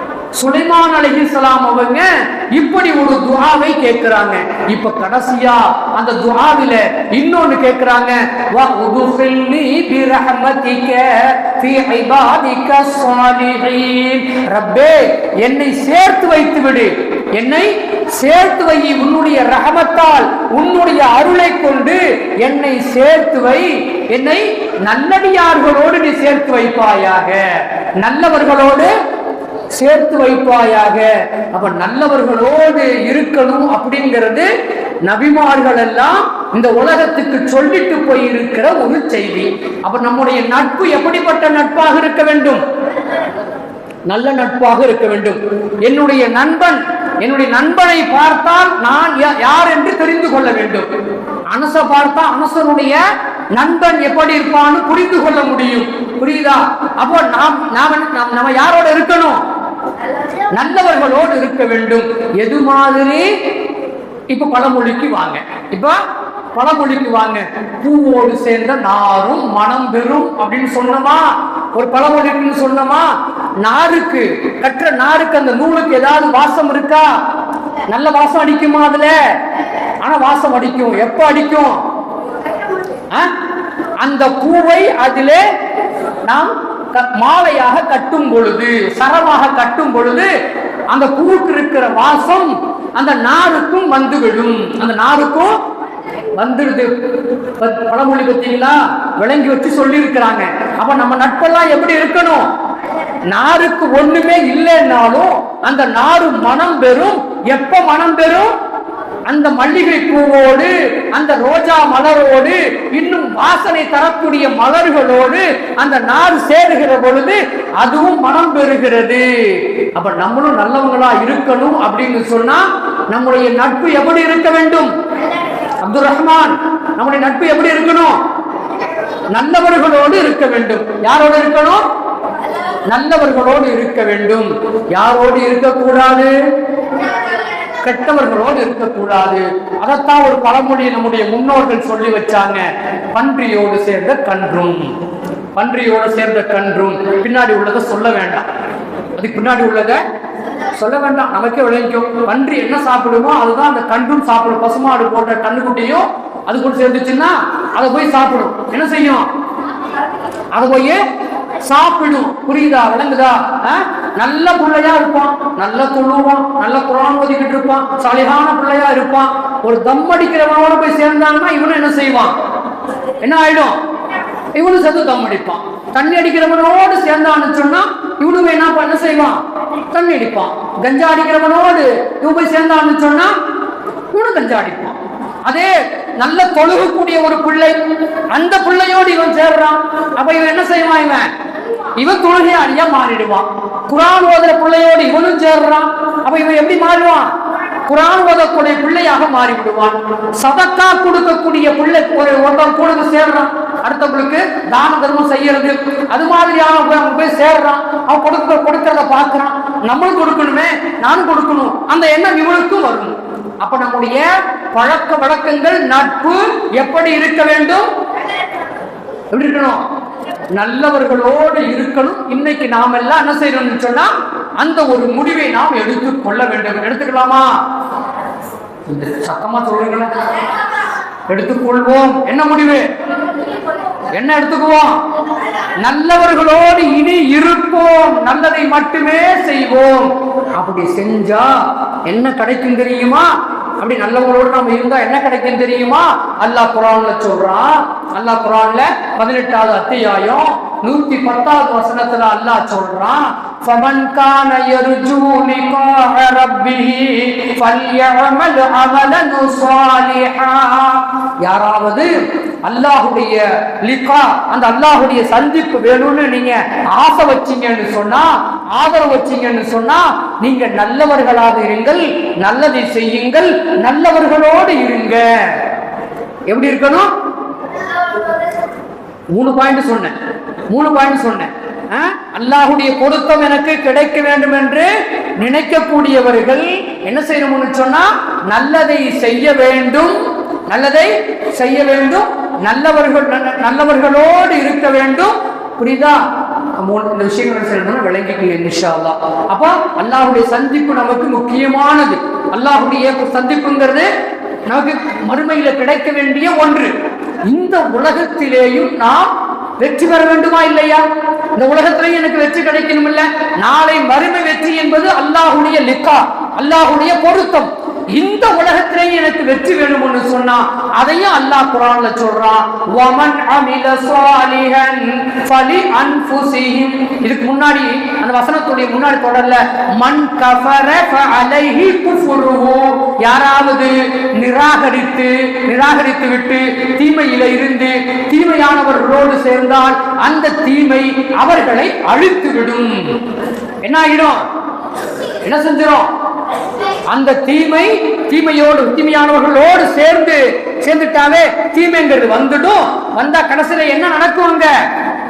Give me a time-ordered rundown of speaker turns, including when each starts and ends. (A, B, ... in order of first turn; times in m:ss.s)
0:00.3-0:27.4 A
0:28.0-0:28.9 A
0:29.7-0:34.5 A
0:35.0-0:42.6 A
0:44.1-0:50.9 A
0:51.5-0:53.0 A
0:53.5-0:59.4 A
1:00.5-1:03.3 A
1:04.3-1:06.0 A
1:06.5-1:13.1 A
1:13.6-1:17.1 A
1:17.9-1:19.1 A
1:20.0-1:21.8 A
1:24.0-1:25.4 A
1:26.2-1:30.3 A
1:30.9-1:35.5 A
1:36.3-1:36.9 A
1:37.6-1:42.5 A
1:43.3-1:48.5 A
1:49.3-2:04.9 A
2:05.8-2:08.2 A
2:09.3-2:11.8 A
2:12.8-2:16.3 A
2:17.8-2:24.9 A
2:25.5-2:28.4 A
2:29.2-2:30.0 A
2:30.7-2:39.2 A
2:40.5-2:41.0 A
2:41.6-2:52.3 A
2:53.2-2:53.8 A
2:54.5-2:59.4 A
2:59.9-3:03.3 A
3:04.1-3:07.8 A
3:08.3-3:11.3 A
3:12.0-3:17.3 A
3:17.8-3:37.9 A
3:39.3-3:39.8 A
3:40.5-3:47.5 A
3:48.8-3:50.1 A
3:51.3-3:52.8 A
3:54.1-3:55.0 A
3:55.8-4:03.3 A
4:03.8-4:35.6 A
4:36.5-4:37.1 A
4:39.3-4:40.1 A
4:40.7-4:50.2 A
4:50.7-4:56.2 A
4:56.8-5:04.1 A
5:04.7-5:06.9 A
5:07.5-5:43.2 A
5:43.8-5:44.4 A
5:45.4-5:46.1 A
5:47.1-5:54.7 A